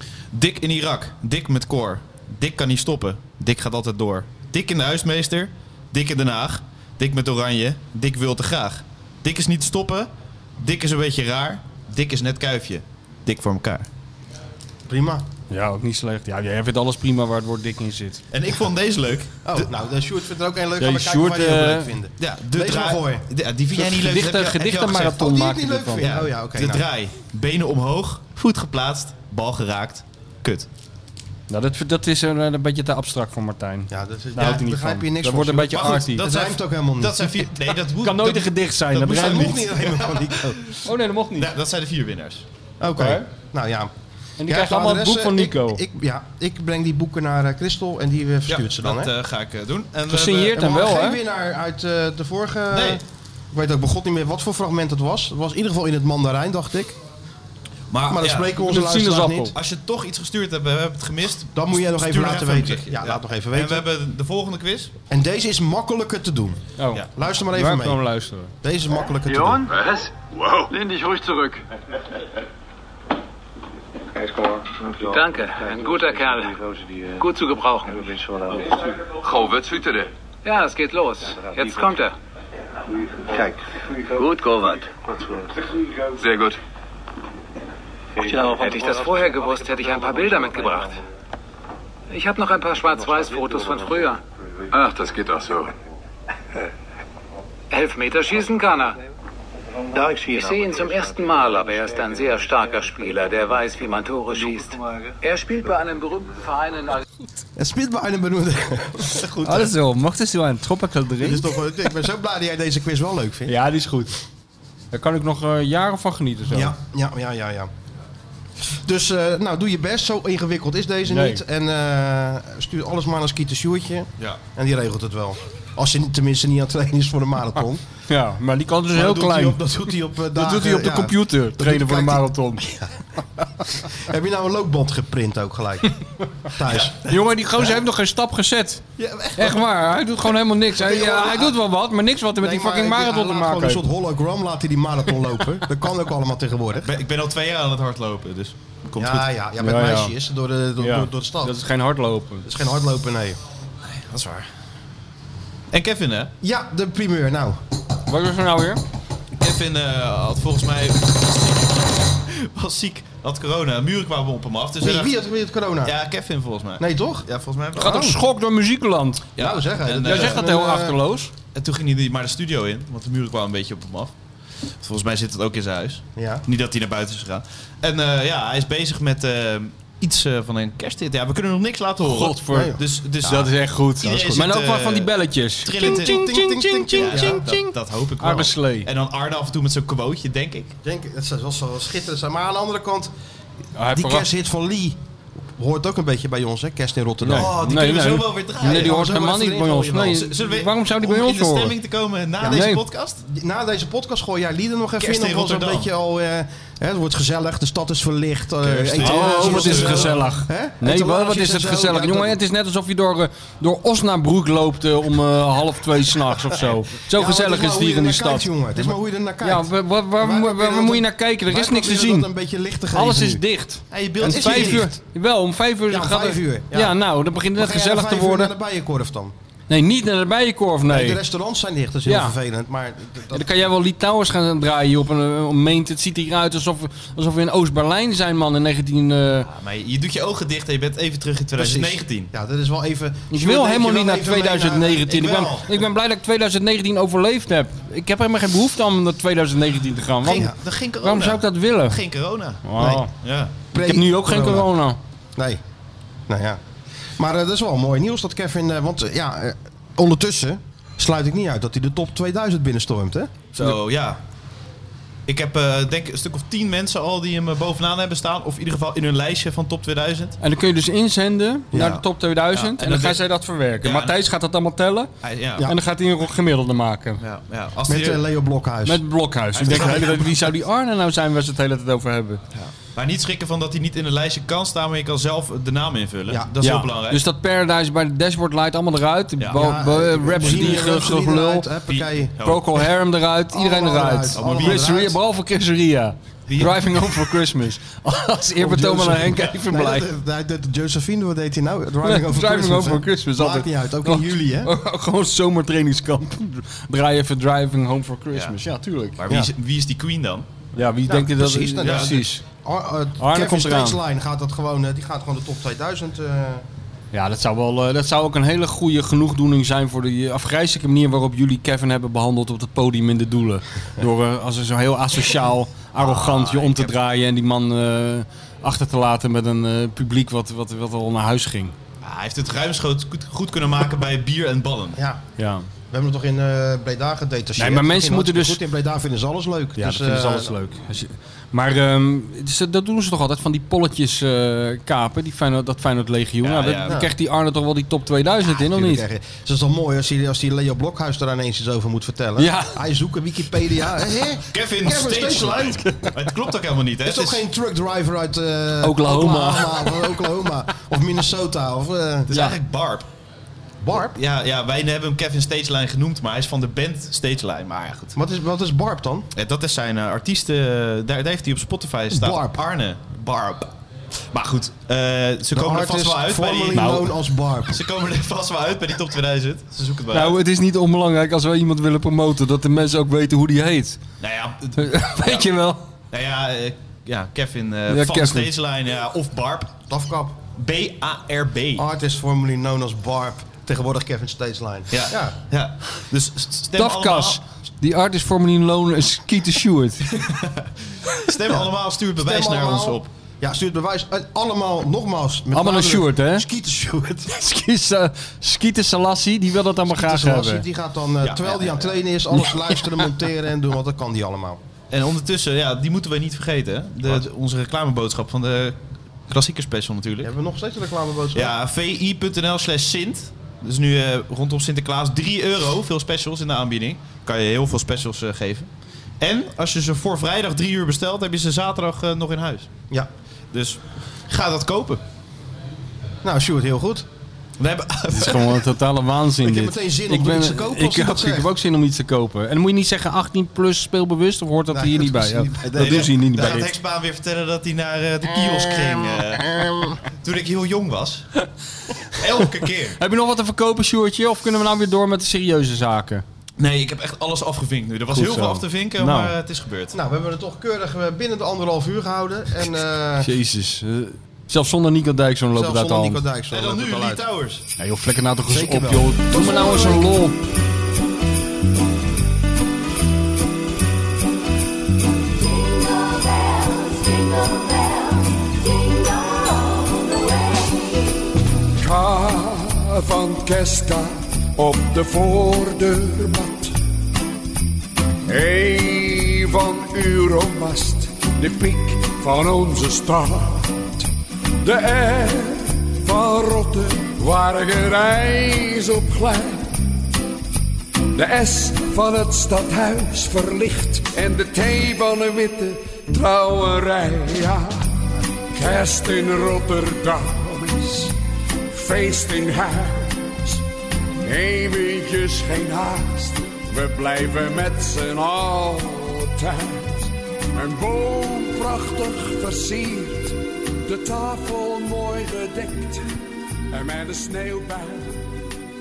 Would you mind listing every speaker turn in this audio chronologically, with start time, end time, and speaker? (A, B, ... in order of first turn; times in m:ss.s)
0:00.3-0:10.1 A
0:10.6-0:13.9 A
0:14.9-0:15.3 B
0:15.5-0:18.2 C
0:18.3-0:19.7 A
0:19.4-0:23.2 B
0:20.8-0:21.9 C
0:22.2-0:25.3 A
0:23.8-0:26.1 C
0:25.1-0:26.8 B
0:26.0-0:30.7 A
0:31.5-0:36.2 C
0:33.9-0:37.5 B
0:35.7-0:40.8 A
0:38.0-0:39.7 C
0:38.9-0:40.6 B
0:40.8-0:41.5 C
0:41.4-0:42.4 A
0:42.8-0:43.9 B
0:43.0-0:43.2 C
0:44.4-0:45.8 C
0:44.5-0:49.1 B
0:48.5-0:50.5 A
0:50.1-0:51.2 C
0:50.3-0:57.0 B
0:52.7-0:53.0 A
0:57.9-0:58.6 A
0:58.1-0:59.6 B
0:58.6-0:59.5 C
0:59.5-1:04.9 A
1:01.5-1:03.8 B
1:05.1-1:06.6 B
1:06.8-1:08.5 C
1:07.2-1:08.0 B
1:08.6-1:09.7 B
1:09.7-1:11.6 D
1:15.0-1:16.6 E
1:17.2-1:18.2 E
1:19.0-1:20.1 D
1:20.4-1:22.2 E
1:24.2-1:24.8 D
1:26.2-1:26.6 D
1:28.2-1:31.0 E
1:32.1-1:34.2 E
1:34.7-1:35.7 D
1:37.7-1:39.0 E
1:39.9-1:47.0 E
1:47.6-1:49.2 B
1:49.1-1:49.7 A
1:49.4-1:51.5 C
1:51.2-1:53.6 B
1:53.5-1:54.2 C
1:54.9-1:56.8 C
1:56.5-1:57.7 B
1:58.8-2:07.8 B
2:01.1-2:01.4 C
2:08.1-2:09.6 C
2:08.9-2:12.9 B
2:10.3-2:12.6 C
2:13.8-2:16.0 B
2:16.5-2:17.8 B
2:17.1-2:18.8 C
2:19.0-2:19.5 A
2:19.4-2:23.9 C
2:20.7-2:21.6 B
2:22.4-2:26.9 B
2:26.8-2:29.3 A
2:29.0-2:31.6 B
2:29.6-2:30.1 C
2:30.8-2:32.5 C
2:32.4-2:33.4 B
2:33.9-2:34.5 A
2:35.7-2:36.3 A
2:36.4-2:37.6 B
2:38.1-2:38.8 C
2:39.4-2:45.2 A
2:44.8-2:45.9 B
2:45.8-2:48.2 A
2:46.8-2:47.3 B
2:47.8-2:49.3 C
2:47.8-2:48.1 B
2:49.4-2:50.4 A
2:49.4-2:51.0 B
2:50.0-2:51.3 C
2:51.5-2:54.1 A
2:54.8-3:05.1 A
2:56.2-2:56.4 B
3:02.0-3:02.7 C
3:02.5-3:03.5 B
3:03.2-3:08.9 C
3:04.0-3:04.5 B
3:05.6-3:10.7 A
3:05.8-3:07.5 B
3:10.8-3:13.1 B
3:13.8-3:14.3 C
3:13.9-3:15.0 B
3:15.5-3:17.6 B
3:17.2-3:21.7 C
3:17.3-3:19.3 A
3:18.6-3:20.2 B
3:19.9-3:23.2 A
3:22.4-3:22.8 C
3:23.3-3:32.4 B
3:25.0-3:25.9 A
3:28.6-3:30.2 A
3:29.0-3:42.3 C
3:37.1-3:43.4 B
3:42.9-3:48.5 C
3:43.9-3:44.9 A
3:44.2-3:44.9 B
3:45.9-3:47.0 B
3:47.6-3:49.3 B
3:49.7-3:51.2 C
3:50.9-3:53.5 B
3:52.1-3:52.4 C
3:53.3-3:59.5 C
3:59.5-4:02.3 A
4:01.6-4:05.8 B
4:03.3-4:12.0 C
4:10.2-4:12.7 A
4:10.3-4:10.6 B
4:12.6-4:13.1 C
4:12.8-4:13.1 B
4:13.2-4:13.5 A
4:13.7-4:14.7 B
4:13.8-4:15.0 C
4:16.3-4:16.6 B
4:17.2-4:23.4 B
4:23.5-4:24.2 A
4:25.3-4:30.4 A
4:30.4-4:35.1 C
4:31.7-4:32.0 B
4:32.5-4:33.2 A
4:33.8-4:34.2 A
4:35.2-4:35.7 A
4:35.6-4:37.2 C
4:37.2-4:38.2 A
4:37.9-4:39.0 B
4:38.8-4:42.4 C
4:39.6-4:40.4 A
4:42.5-4:47.2 A
4:46.6-4:51.7 C
4:49.5-4:52.4 B
4:51.9-4:52.9 A
4:52.4-5:00.1 C
4:53.5-4:55.2 B
4:54.4-4:54.8 A
4:58.6-5:04.7 B
5:02.0-5:09.2 C
5:09.2-5:10.5 A
5:10.8-5:12.4 C
5:11.1-5:16.6 B
5:11.8-5:12.2 A
5:13.2-5:14.0 C
5:17.1-5:31.8 C
5:26.0-5:26.9 A
5:32.0-5:35.0 A
5:35.0-5:35.2 B
5:35.4-5:35.7 C
5:35.9-5:40.6 B
5:37.6-5:38.6 C
5:39.8-5:49.0 C
5:46.4-5:47.0 A
5:46.9-5:47.1 B
5:48.4-5:55.9 B
5:52.4-5:52.8 C
5:54.5-5:57.4 A
5:57.0-6:02.4 B
5:58.8-6:00.3 C
6:02.3-6:03.1 A
6:03.8-6:04.2 B
6:04.1-6:08.2 A
6:08.2-6:09.3 B
6:09.4-6:13.7 A
6:12.1-6:12.6 B
6:14.3-6:17.0 A
6:15.5-6:17.8 B
6:16.8-6:17.1 C
6:17.7-6:20.4 A
6:20.1-6:24.0 C
6:24.2-6:25.5 A
6:24.8-6:25.8 C
6:26.1-6:29.8 A
6:27.9-6:28.5 C
6:29.9-6:30.4 B
6:30.6-6:31.8 A
6:31.8-6:35.4 B
6:34.9-6:37.4 A
6:36.8-6:40.1 C
6:40.1-6:43.1 A
6:41.5-6:47.3 B
6:45.5-6:46.5 C
6:47.3-6:50.6 C
6:49.9-6:54.6 B
6:51.2-6:51.9 A
6:54.9-6:58.8 A
6:59.3-7:00.3 A
7:00.2-7:01.5 B
7:01.3-7:08.7 A
7:09.2-7:12.7 A
7:13.5-7:15.0 A
7:16.2-7:17.1 B
7:17.6-7:18.7 A
7:18.1-7:26.7 C
7:19.4-7:21.5 B
7:24.7-7:26.7 B
7:25.7-7:31.3 A
7:32.2-7:33.0 A
7:33.0-7:36.2 C
7:36.6-7:40.0 A
7:38.1-7:39.3 C
7:39.9-7:43.3 B
7:43.2-7:46.2 C
7:45.5-7:47.2 B
7:46.5-7:47.6 A
7:47.8-7:50.4 C
7:48.5-7:50.1 B
8:01.8-8:06.7 F
8:08.3-8:13.9 F
8:14.6-8:20.0 F
8:21.1-8:27.9 F
8:28.5-8:31.2 F
8:31.7-8:33.6 F
8:34.2-8:46.1 F
8:46.7-8:48.4 F